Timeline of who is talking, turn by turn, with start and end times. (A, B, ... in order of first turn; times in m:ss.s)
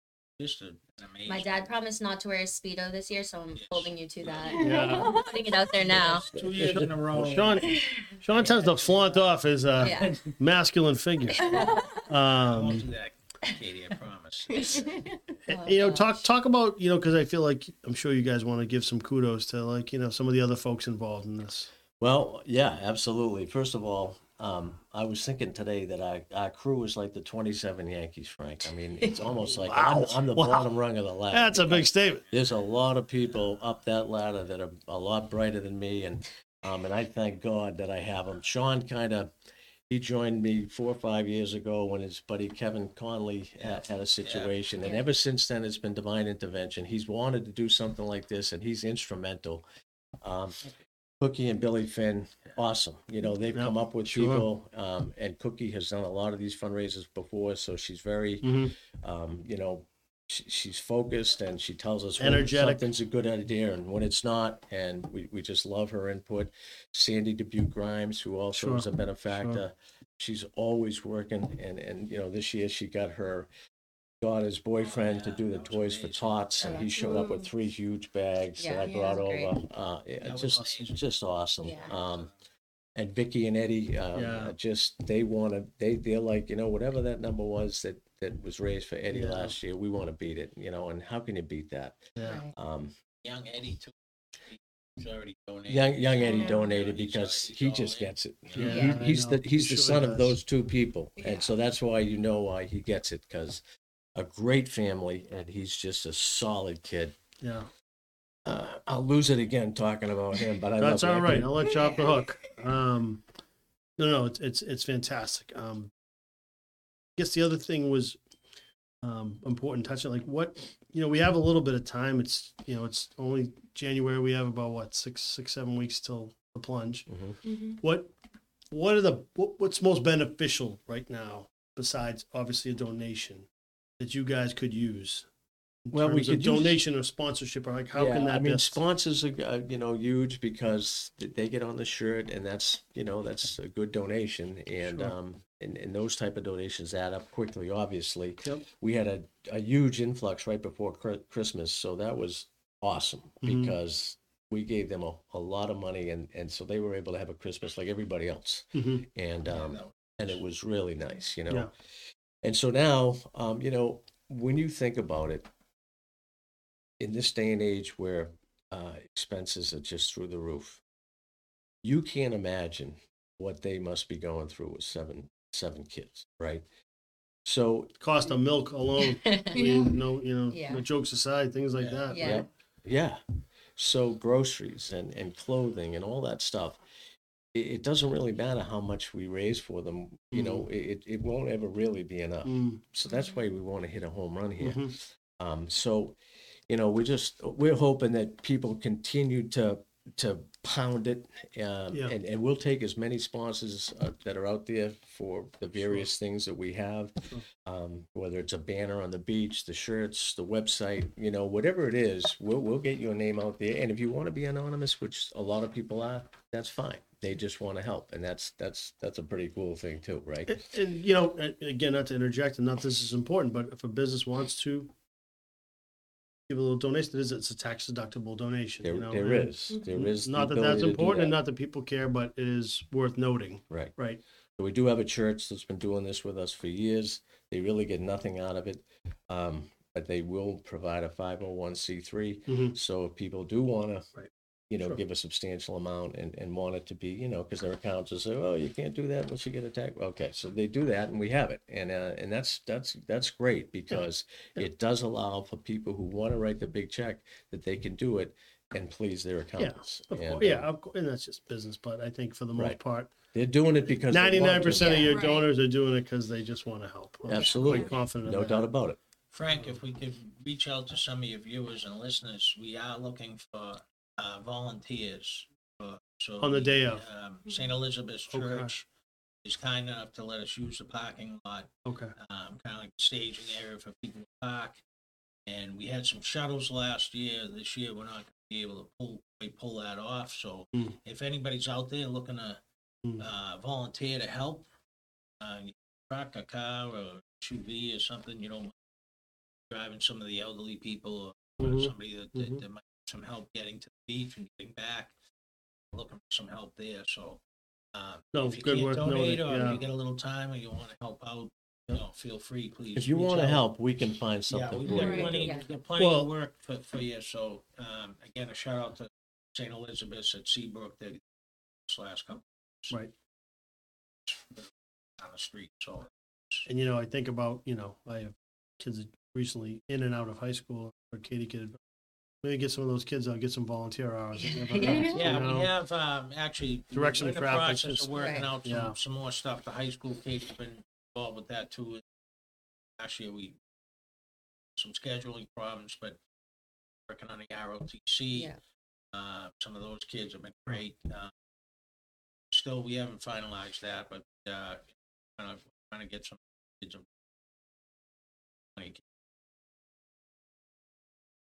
0:00.4-0:01.7 A
0:01.3-0:06.3 B
0:03.6-0:04.7 A
0:04.5-0:05.7 C
0:04.6-0:05.1 D
0:05.8-0:06.9 E
0:05.9-0:07.7 A
0:07.1-0:12.8 D
0:07.6-0:08.1 B
0:08.3-0:10.4 A
0:09.8-0:10.2 B
0:11.3-0:12.1 B
0:11.4-0:12.0 C
0:12.3-0:15.0 A
0:14.5-0:15.4 C
0:15.5-0:21.7 D
0:15.5-0:16.1 B
0:22.0-0:39.3 E
0:29.4-0:30.7 D
0:31.3-0:32.2 D
0:39.9-0:49.6 E
0:43.6-0:44.5 A
0:50.2-0:50.6 E
0:51.2-1:13.5 E
0:53.5-0:54.5 D
0:58.4-0:58.7 D
1:02.2-1:02.9 D
1:08.6-1:09.6 D
1:14.2-1:22.3 E
1:14.8-1:17.0 A
1:16.6-1:17.5 C
1:18.6-1:19.5 B
1:18.8-1:19.2 C
1:20.2-1:21.0 A
1:21.6-1:21.9 B
1:21.6-1:22.3 A
1:23.0-1:33.0 E
1:24.1-1:24.6 D
1:29.1-1:29.6 D
1:32.2-1:32.4 D
1:32.2-1:32.5 B
1:33.2-1:38.9 A
1:35.7-1:43.6 E
1:36.2-1:36.7 C
1:38.6-1:40.4 D
1:38.6-1:39.0 B
1:41.2-1:41.5 C
1:44.2-1:47.2 E
1:47.4-1:47.7 D
1:48.5-1:51.8 E
1:50.8-1:53.2 D
1:51.8-1:52.5 C
1:54.0-1:55.9 D
1:57.2-1:58.2 D
1:59.0-2:07.1 D
2:07.1-2:07.4 E
2:07.5-2:07.8 C
2:07.8-2:08.1 D
2:08.7-2:13.5 D
2:14.0-2:15.3 D
2:15.8-2:18.8 D
2:15.9-2:16.8 E
2:17.9-2:41.7 E
2:24.8-2:25.2 D
2:33.4-2:33.7 D
2:38.7-2:39.0 D
2:39.5-2:40.3 A
2:42.4-2:45.5 E
2:47.0-2:50.8 E
2:51.8-2:56.7 E
2:57.4-2:57.9 E
2:58.0-3:02.4 D
2:59.2-2:59.8 B
2:59.5-3:00.0 C
3:00.5-3:00.8 B
3:02.1-3:02.5 B
3:02.2-3:03.2 E
3:03.8-3:06.8 E
3:07.5-3:40.6 E
3:10.3-3:10.7 D
3:12.4-3:12.8 D
3:14.6-3:14.9 D
3:25.8-3:26.1 D
3:40.5-3:44.9 D
3:46.5-3:54.2 D
3:48.8-3:51.4 E
3:54.6-4:04.1 E
4:02.5-4:02.8 D
4:04.2-4:05.0 D
4:04.7-4:20.7 E
4:19.6-4:23.1 D
4:23.3-4:25.1 E
4:24.1-4:28.7 D
4:24.7-4:25.4 B
4:25.0-4:25.5 C
4:27.3-4:29.0 E
4:27.4-4:28.0 C
4:29.3-4:38.9 A
4:36.4-4:37.0 D
4:38.3-4:38.7 D
4:39.4-4:44.8 A
4:41.8-4:42.1 D
4:45.5-4:52.6 A
4:53.2-4:54.7 A
4:55.4-4:58.7 A
4:59.7-5:05.1 A
5:01.6-5:02.6 D
5:05.9-5:07.4 A
5:07.9-5:13.6 A
5:08.3-5:09.8 D
5:13.0-5:15.5 E
5:14.5-5:21.2 A
5:14.9-5:15.4 C
5:14.9-5:16.3 D
5:15.3-5:15.6 B
5:21.9-5:23.0 A
5:24.3-5:26.7 A
5:26.7-5:31.8 D
5:32.4-5:35.7 D
5:34.4-5:35.1 B
5:34.8-5:35.2 C
5:35.1-5:42.0 A
5:36.9-5:39.0 D
5:38.1-5:38.5 B
5:43.0-5:43.6 A
5:44.8-5:46.2 A
5:47.1-5:48.5 A
5:48.3-5:48.6 B
5:49.1-5:51.3 A
5:52.5-5:57.1 A
5:58.8-5:59.0 A